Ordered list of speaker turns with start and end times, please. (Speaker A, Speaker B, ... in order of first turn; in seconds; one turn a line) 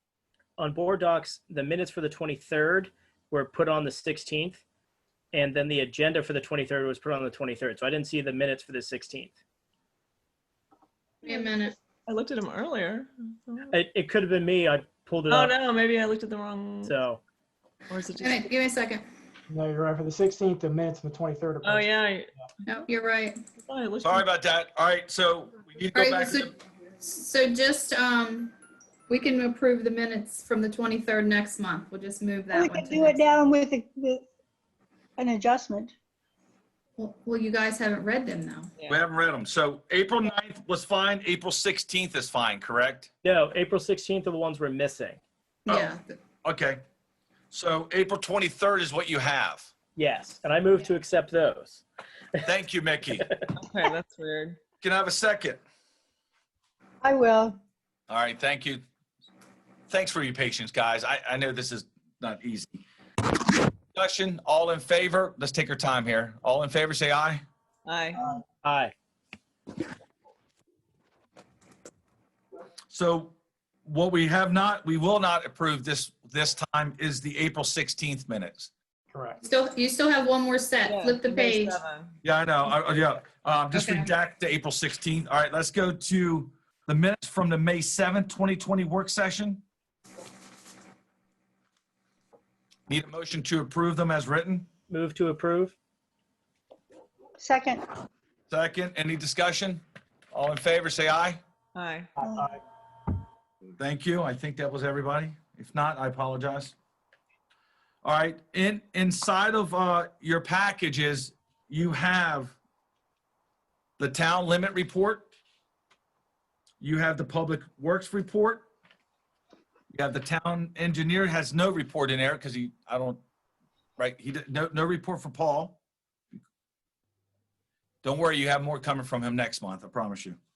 Speaker A: 0.6-4.6
Speaker A: 5.3-9.3
Speaker B: 11.2-11.7
Speaker C: 12.1-13.7
Speaker A: 13.7-15.5
Speaker C: 15.3-16.9
Speaker A: 16.8-17.2
Speaker C: 17.9-18.5
Speaker B: 18.2-19.0
Speaker D: 19.5-21.9
Speaker C: 21.6-22.3
Speaker B: 22.7-23.4
Speaker C: 23.6-24.2
Speaker E: 24.0-26.5
Speaker B: 25.9-28.5
Speaker B: 29.1-33.3
Speaker F: 32.5-34.2
Speaker F: 35.2-35.9
Speaker B: 37.0-38.7
Speaker E: 38.9-43.1
Speaker A: 43.2-45.2
Speaker B: 45.6-46.1
Speaker E: 46.4-46.8
Speaker E: 47.5-49.7
Speaker A: 50.0-51.8
Speaker E: 52.4-53.3
Speaker C: 53.5-54.6
Speaker E: 54.8-55.6
Speaker F: 57.0-57.6
Speaker E: 58.1-58.8
Speaker E: 59.9-62.8
Speaker E: 63.9-67.4
Speaker C: 67.8-68.2
Speaker A: 68.3-68.9
Speaker E: 72.9-78.7
Speaker D: 79.1-79.4
Speaker B: 79.4-81.8
Speaker C: 80.8-82.2
Speaker E: 82.2-89.6
Speaker B: 83.7-84.1
Speaker E: 92.9-94.7
Speaker A: 94.9-95.7
Speaker F: 97.4-97.8
Speaker E: 98.5-99.8
Speaker E: 100.3-101.4
Speaker C: 101.7-102.1
Speaker F: 102.2-102.5
Speaker E: 103.8-106.7
Speaker E: 108.0-112.5
Speaker E: 114.0-115.3
Speaker E: 116.8-118.7
Speaker E: 119.9-123.2
Speaker E: 124.0-125.8
Speaker E: 128.0-130.4